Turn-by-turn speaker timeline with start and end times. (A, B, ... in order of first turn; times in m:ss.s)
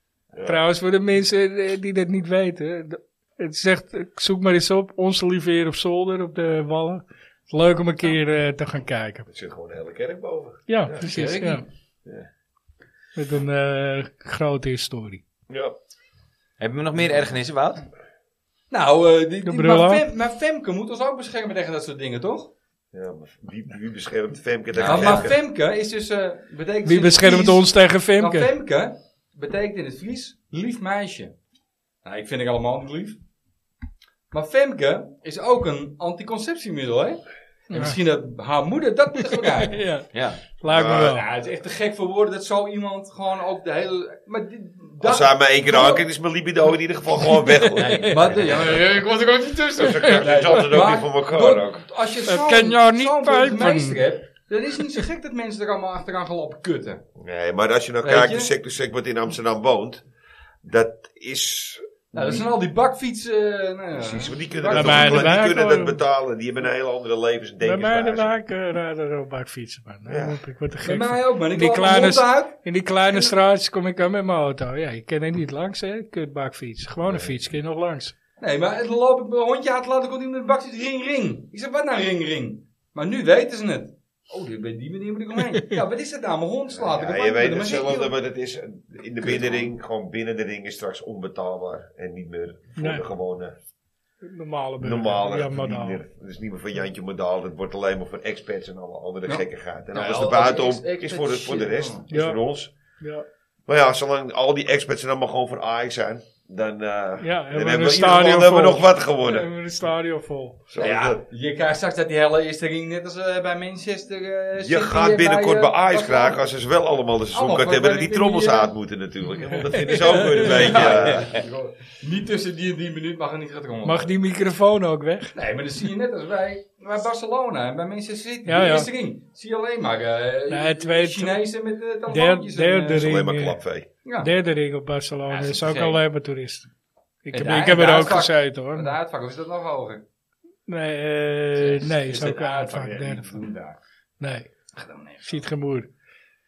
0:00.3-0:00.6 A
0:00.4-0:09.3 B
0:09.3-0:11.2 A
0:10.7-0:11.6 B
0:11.1-0:11.6 C
0:13.2-0:15.2 B
0:15.5-0:15.8 A
0:16.6-0:17.9 D
0:18.7-0:22.5 C
0:19.4-0:20.0 B
0:22.9-0:25.4 A
0:24.7-0:25.3 D
0:24.8-0:31.4 C
0:26.8-0:28.5 B
0:32.0-0:33.2 C
0:34.3-0:39.8 C
0:37.7-0:38.0 B
0:39.6-0:40.1 B
0:40.1-0:40.5 D
0:40.6-0:41.3 B
0:40.7-0:41.2 A
0:40.8-0:46.0 C
0:45.0-0:48.0 A
0:47.8-0:48.2 B
0:47.8-0:48.4 D
0:48.1-0:57.0 C
0:49.8-0:51.8 A
0:52.3-0:54.0 B
0:57.2-1:00.0 A
0:58.0-0:58.5 C
1:00.6-1:02.5 A
1:02.1-1:05.4 C
1:04.0-1:08.3 A
1:04.7-1:06.0 B
1:07.6-1:18.1 B
1:10.1-1:10.4 A
1:10.8-1:12.6 C
1:18.4-1:28.2 C
1:26.7-1:33.6 A
1:29.2-1:29.7 C
1:32.8-1:33.0 B
1:34.2-1:36.0 B
1:34.8-1:42.7 A
1:39.3-1:42.0 C
1:42.1-1:42.4 B
1:43.0-1:43.2 B
1:43.7-1:49.5 A
1:47.2-1:50.6 B
1:50.7-1:51.2 A
1:50.8-1:56.4 C
1:54.6-2:01.3 A
1:57.3-1:58.7 C
1:59.5-2:00.7 B
2:00.1-2:04.1 C
2:00.8-2:01.2 D
2:03.8-2:05.3 B
2:05.4-2:13.1 C
2:08.5-2:08.9 B
2:10.5-2:11.4 B
2:12.1-2:13.6 B
2:13.0-2:13.9 A
2:14.0-2:14.3 C
2:14.2-2:16.7 B
2:15.3-2:16.0 C
2:17.2-2:19.0 B
2:17.3-2:20.0 C
2:20.7-2:23.4 B
2:21.6-2:23.8 C
2:24.2-2:24.5 B
2:24.8-2:25.4 C
2:25.2-2:25.9 B